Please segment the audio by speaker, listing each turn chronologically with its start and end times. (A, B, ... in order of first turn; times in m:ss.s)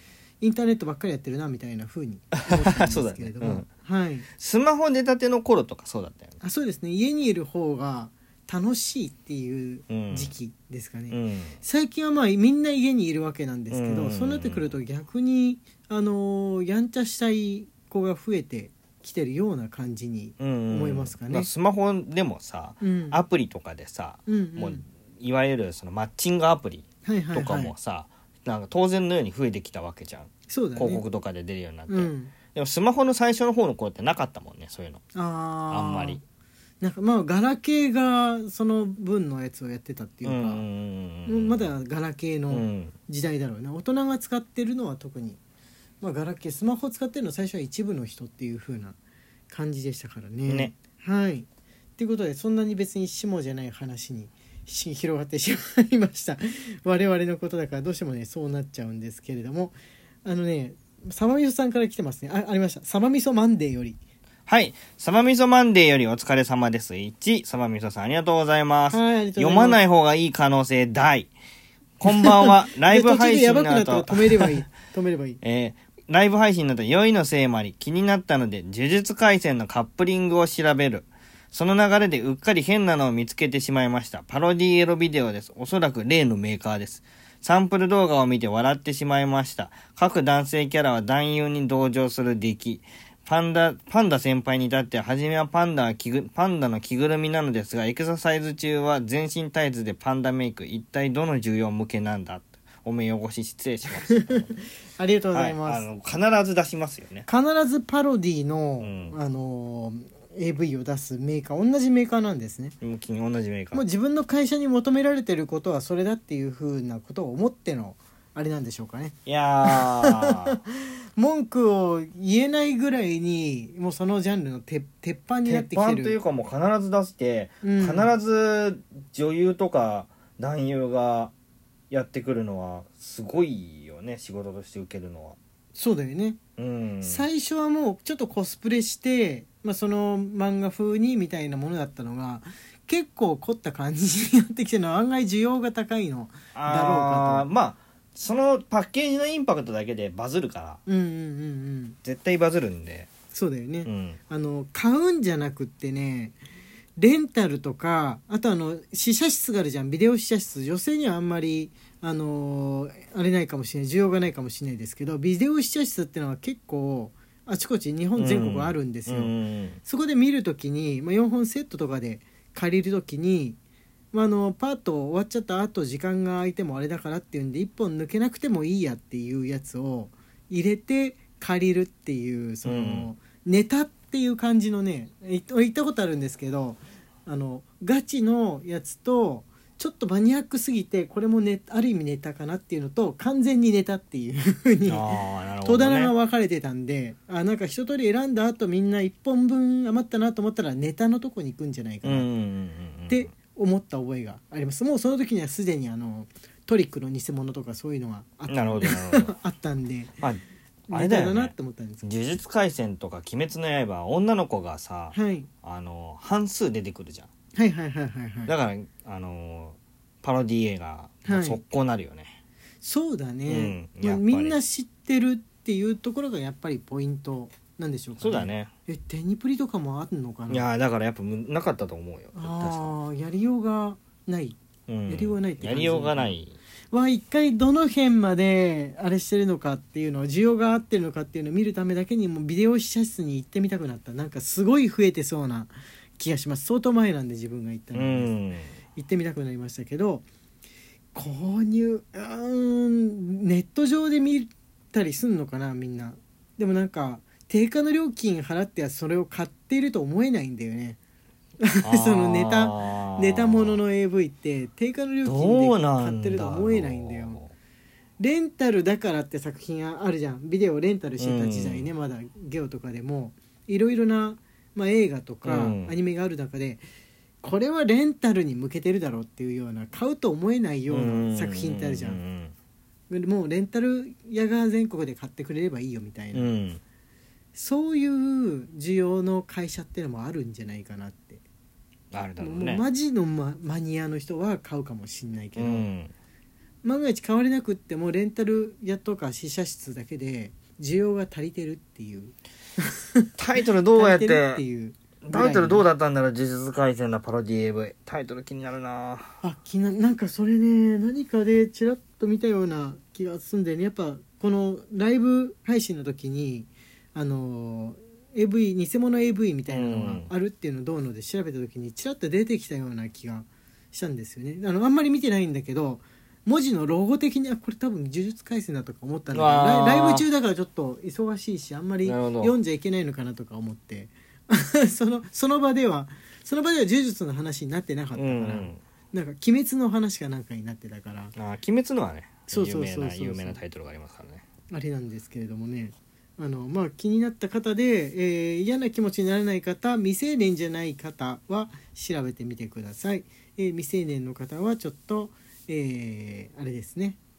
0:00.4-0:04.2 A
0:02.5-0:03.6 B
0:04.4-0:06.4 B
0:06.4-0:21.5 A
0:09.9-0:10.3 B
0:11.1-0:11.6 B
0:13.7-0:14.7 B
0:20.4-0:35.0 B
0:22.8-0:23.2 A
0:24.2-0:24.8 A
0:27.0-0:27.7 A
0:30.5-0:31.0 A
0:31.9-0:32.3 A
0:35.1-0:36.2 A
0:35.7-0:36.2 B
0:36.8-0:40.6 A
0:40.2-0:41.7 B
0:41.2-0:45.4 A
0:42.5-0:42.9 B
0:46.0-0:49.0 A
0:49.5-1:04.0 A
0:50.5-0:50.7 B
1:04.5-1:11.3 B
1:08.9-1:09.8 A
1:12.0-1:14.6 B
1:12.0-1:15.4 A
1:15.4-1:44.5 B
1:44.1-1:45.8 A
1:45.3-1:47.3 B
1:47.3-1:52.8 A
1:48.8-1:49.2 B
1:52.8-1:53.8 B
1:53.7-2:06.2 A
1:59.2-2:00.6 B
2:05.4-2:11.3 B
2:07.6-2:08.1 A
2:11.9-2:15.4 B
2:15.7-2:16.4 A
2:16.6-2:17.3 B
2:17.0-2:27.4 A
2:26.5-2:30.8 B
2:30.8-2:32.0 A
2:32.0-2:33.1 B
2:33.3-2:36.4 A
2:33.8-2:34.2 B
2:37.0-2:53.6 A
2:48.2-2:49.8 B
2:54.1-3:22.3 A
3:02.6-3:03.1 B
3:14.8-3:16.1 B
3:22.0-3:23.3 B
3:23.1-3:30.1 A
3:28.5-3:29.3 B
3:30.9-3:32.0 A
3:30.9-3:37.3 B
3:35.1-3:35.5 A
3:37.5-3:38.5 A
3:38.5-3:42.4 B
3:41.2-3:41.6 A
3:42.8-3:50.7 A
3:43.5-3:44.6 B
3:48.2-3:48.7 B
3:50.5-3:52.9 B
3:52.3-3:56.4 A
3:54.9-3:56.6 B
3:56.9-4:08.3 A
4:07.9-4:08.7 B
4:08.9-4:10.2 A
4:11.1-4:21.0 A
4:21.6-4:27.4 A
4:21.8-4:23.8 B
4:25.2-4:27.5 B
4:28.2-4:36.8 A
4:31.2-4:31.9 B
4:35.4-4:35.9 B
4:37.4-4:42.2 A
4:40.9-4:42.5 B
4:43.1-4:46.5 A
4:46.3-4:46.8 B
4:47.5-4:51.4 A
4:52.1-4:52.8 B
4:52.4-4:55.9 A
4:55.6-4:56.1 B
4:56.8-5:03.2 A
5:03.4-5:04.6 B
5:03.9-5:05.9 A
5:05.2-5:09.3 B
5:09.4-5:41.3 A
5:19.7-5:20.3 B
5:29.3-5:30.2 B
5:32.0-5:32.6 B
5:38.1-5:38.8 B
5:41.4-5:44.4 B
5:42.5-5:43.6 A
5:44.7-5:57.2 A